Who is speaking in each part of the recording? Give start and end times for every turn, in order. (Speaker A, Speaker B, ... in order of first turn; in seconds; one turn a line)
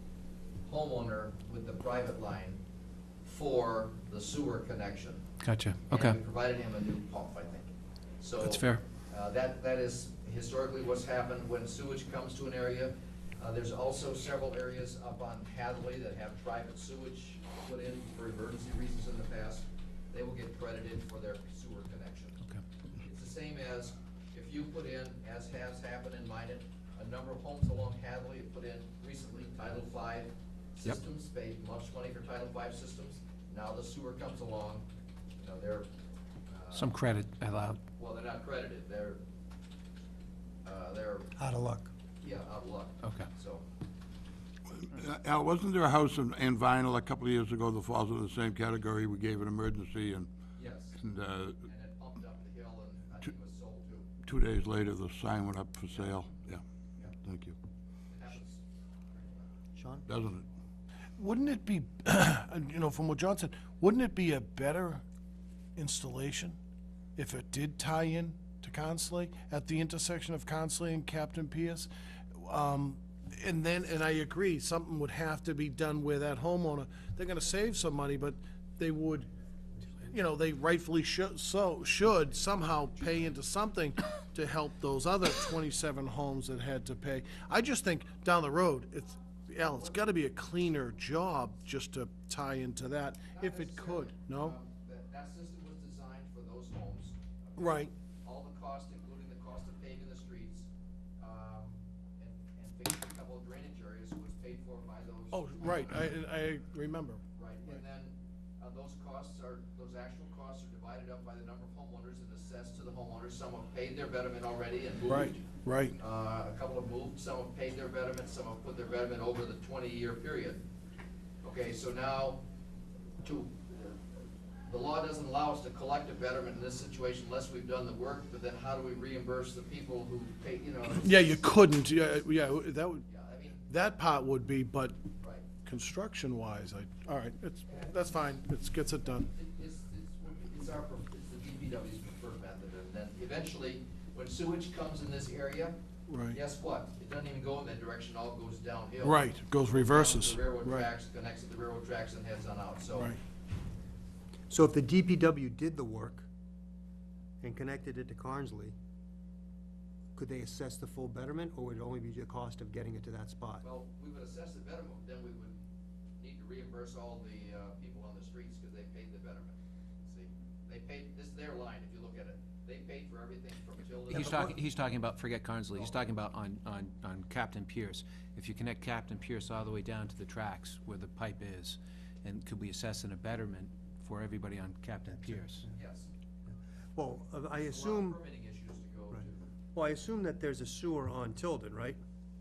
Speaker A: 0.6-2.6
Speaker A: 3.2-5.3
Speaker B: 5.4-6.2
Speaker A: 5.9-22.4
Speaker B: 8.4-8.8
Speaker A: 23.0-34.9
Speaker A: 35.4-35.9
Speaker A: 36.5-37.0
Speaker B: 36.7-37.8
Speaker A: 38.0-39.2
Speaker A: 40.6-41.3
Speaker C: 41.4-41.9
Speaker A: 42.2-43.6
Speaker B: 43.0-43.3
Speaker D: 44.7-50.3
Speaker A: 50.5-51.0
Speaker D: 51.0-51.6
Speaker A: 51.6-54.1
Speaker D: 54.2-56.6
Speaker D: 57.2-57.6
Speaker A: 58.1-59.5
Speaker C: 59.7-60.0
Speaker D: 60.1-60.4
Speaker E: 61.2-65.0
Speaker E: 65.8-66.6
Speaker E: 67.2-79.3
Speaker E: 80.0-94.5
Speaker A: 89.7-90.0
Speaker A: 93.3-100.7
Speaker E: 97.6-97.9
Speaker A: 101.2-105.9
Speaker E: 105.3-107.2
Speaker A: 107.3-115.4
Speaker E: 115.1-116.0
Speaker A: 116.0-120.6
Speaker A: 121.4-122.4
Speaker A: 123.2-124.0
Speaker A: 124.7-131.4
Speaker E: 131.0-133.1
Speaker A: 133.1-133.6
Speaker E: 133.7-135.0
Speaker A: 135.2-135.4
Speaker E: 135.6-139.3
Speaker A: 139.3-145.8
Speaker E: 146.1-146.4
Speaker A: 146.3-153.1
Speaker E: 149.0-150.9
Speaker C: 154.5-156.3
Speaker C: 157.4-158.7
Speaker C: 160.1-163.6
Speaker A: 163.6-165.6
Speaker A: 166.2-174.5
Speaker B: 174.1-185.6
Speaker C: 174.1-174.5
Speaker A: 185.7-186.1
Speaker C: 186.9-188.2
Speaker A: 187.6-189.5
Speaker C: 189.7-192.0